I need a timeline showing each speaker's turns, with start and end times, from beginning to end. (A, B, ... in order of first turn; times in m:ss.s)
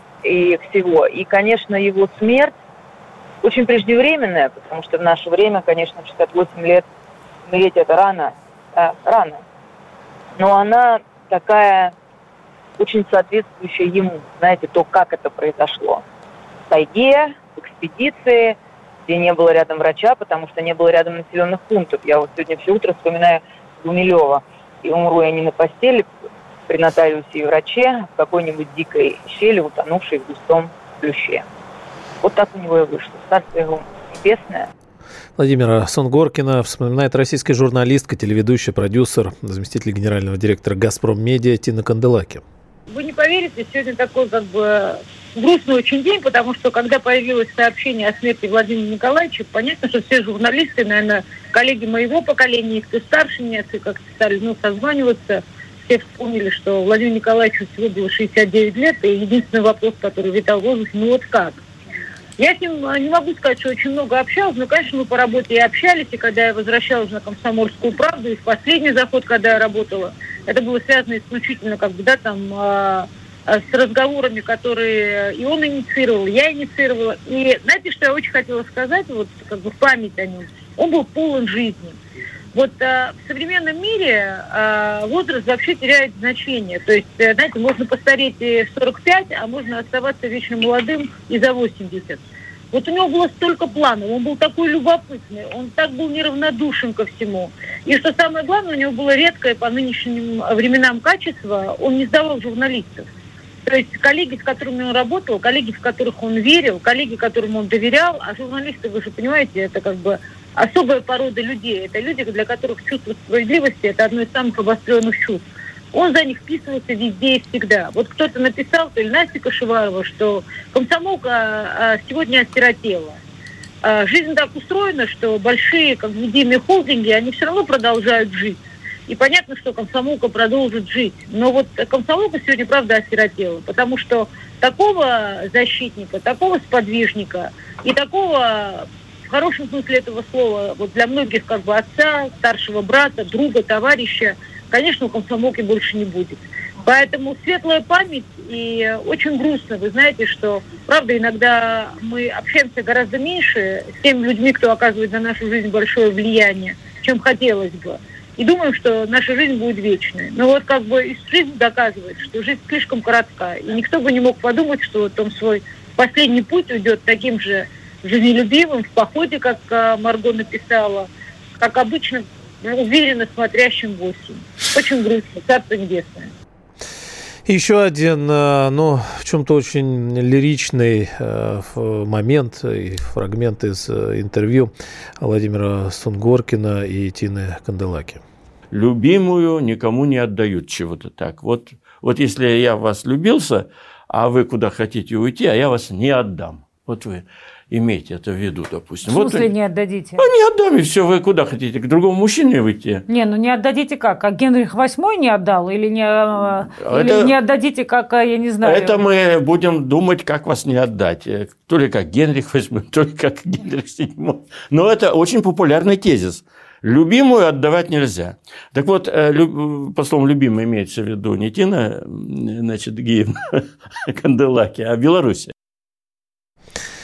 0:00.2-0:02.6 A
0:03.4-0:06.9 A
0:07.5-0:09.4 A
0:10.4-0:11.9 A
0:12.8-0:16.0 A
0:16.7-0:26.1 A
0:26.7-0:31.5 A
0:32.2-0:34.7 A
0:35.4-0:42.4 B
0:42.9-1:01.6 C
1:02.4-1:22.0 C
1:22.5-1:43.1 C
1:43.7-2:03.2 C
2:03.8-2:51.1 C
2:51.6-2:56.3 C
2:57.5-3:08.2 B
3:08.7-3:19.6 D
3:19.0-3:20.2 E
3:20.2-3:23.0 D
3:23.1-3:29.0 E
3:26.8-3:27.4 D
3:28.6-3:45.5 D